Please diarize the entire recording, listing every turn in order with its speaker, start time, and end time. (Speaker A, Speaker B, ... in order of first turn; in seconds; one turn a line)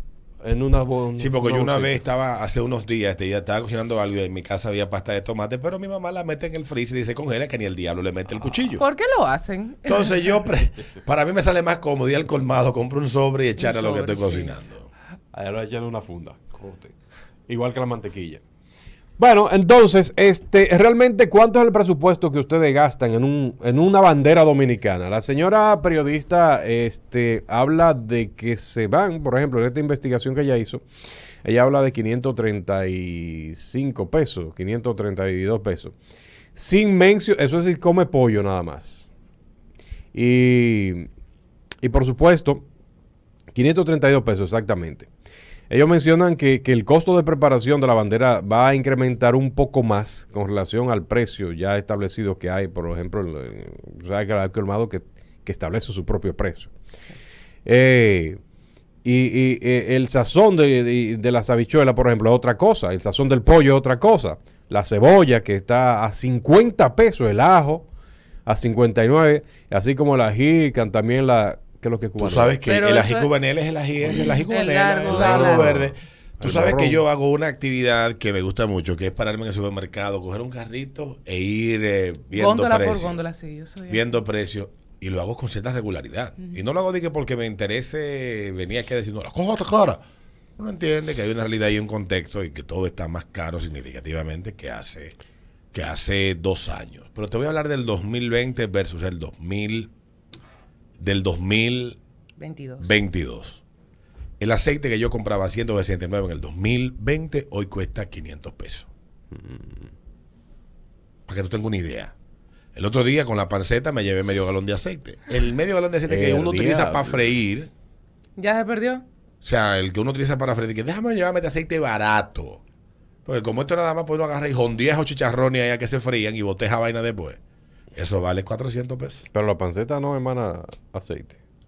Speaker A: 0.4-2.0
Speaker B: 1.2-8.8
Speaker C: 8.8-10.3
Speaker B: 9.9-14.9
Speaker C: 13.6-14.6
Speaker A: 15.3-16.9
Speaker A: 17.5-18.4
Speaker A: 19.2-30.8
Speaker A: 31.4-35.9
Speaker A: 36.5-39.1
Speaker A: 40.1-41.1
Speaker A: 41.8-42.6
Speaker A: 43.5-45.1
Speaker A: 45.7-56.7
Speaker A: 57.7-58.4
Speaker A: 59.0-67.9
Speaker A: 68.5-72.6
Speaker B: 72.2-83.2
Speaker C: 72.7-73.3
Speaker C: 74.2-75.7
Speaker A: 75.1-77.0
Speaker C: 82.3-84.2
Speaker B: 83.9-90.0
Speaker B: 90.6-95.2
Speaker B: 95.7-99.9
Speaker B: 101.0-102.0
Speaker C: 102.4-103.0
Speaker B: 102.8-103.6
Speaker B: 104.4-108.9
Speaker A: 109.3-109.9
Speaker B: 111.3-112.1
Speaker B: 112.8-117.7
Speaker A: 116.1-117.2
Speaker C: 118.4-119.0
Speaker B: 119.4-122.6
Speaker B: 123.2-127.4
Speaker B: 127.9-129.3
Speaker A: 129.3-131.4